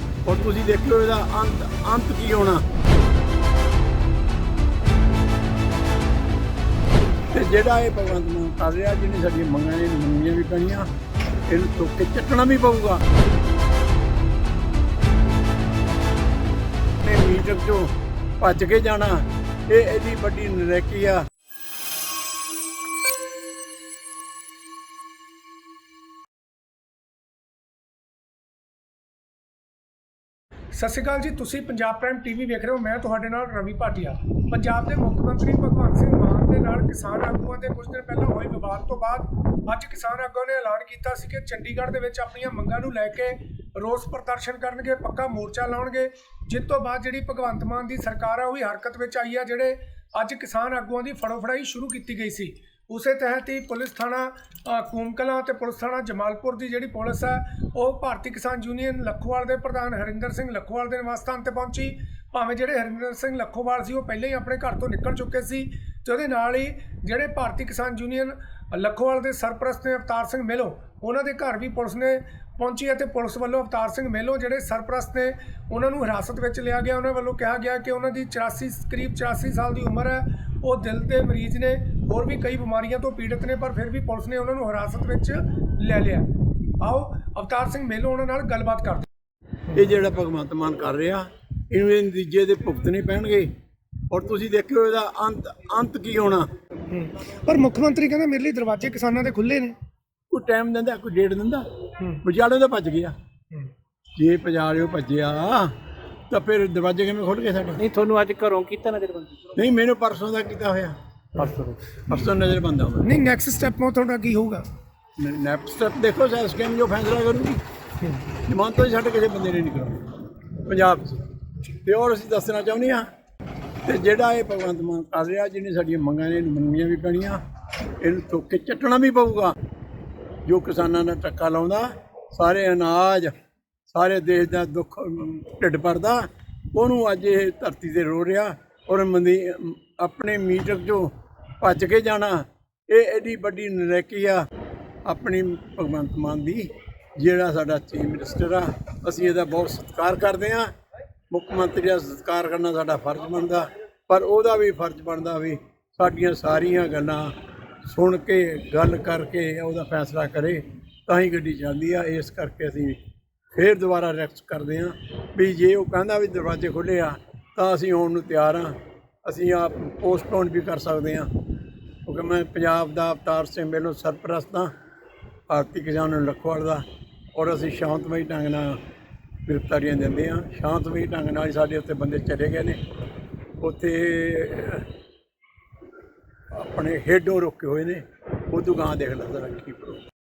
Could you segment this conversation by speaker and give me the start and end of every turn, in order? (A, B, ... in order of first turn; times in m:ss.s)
0:00.2-0:02.6 A
0:07.3-0:10.9 A
0:11.5-0:13.0 A
0:17.0-0:21.2 A
0:30.7-1:29.1 B
1:29.7-1:33.5 A
1:34.1-1:36.5 A
1:36.9-1:39.8 B
1:40.3-1:41.7 A
1:42.2-1:43.2 A
1:44.2-1:45.7 A
1:46.3-1:47.8 A
1:47.8-1:49.5 C
1:49.6-1:51.0 A
1:51.4-1:51.9 C
1:52.1-1:53.1 A
1:53.0-1:54.7 B
1:55.2-1:57.6 A
1:58.4-2:03.1 A
2:03.8-2:07.4 A
2:08.0-2:09.6 A
2:10.4-2:13.3 A
2:13.9-2:24.5 A
2:25.1-2:30.7 A
2:31.3-2:37.3 A
2:37.9-2:43.0 A
2:43.5-2:51.3 A
2:52.0-2:54.7 A
2:55.5-2:56.8 A
2:57.4-2:58.8 A
2:59.4-3:02.8 A
3:03.6-3:04.9 A
3:06.5-3:10.0 A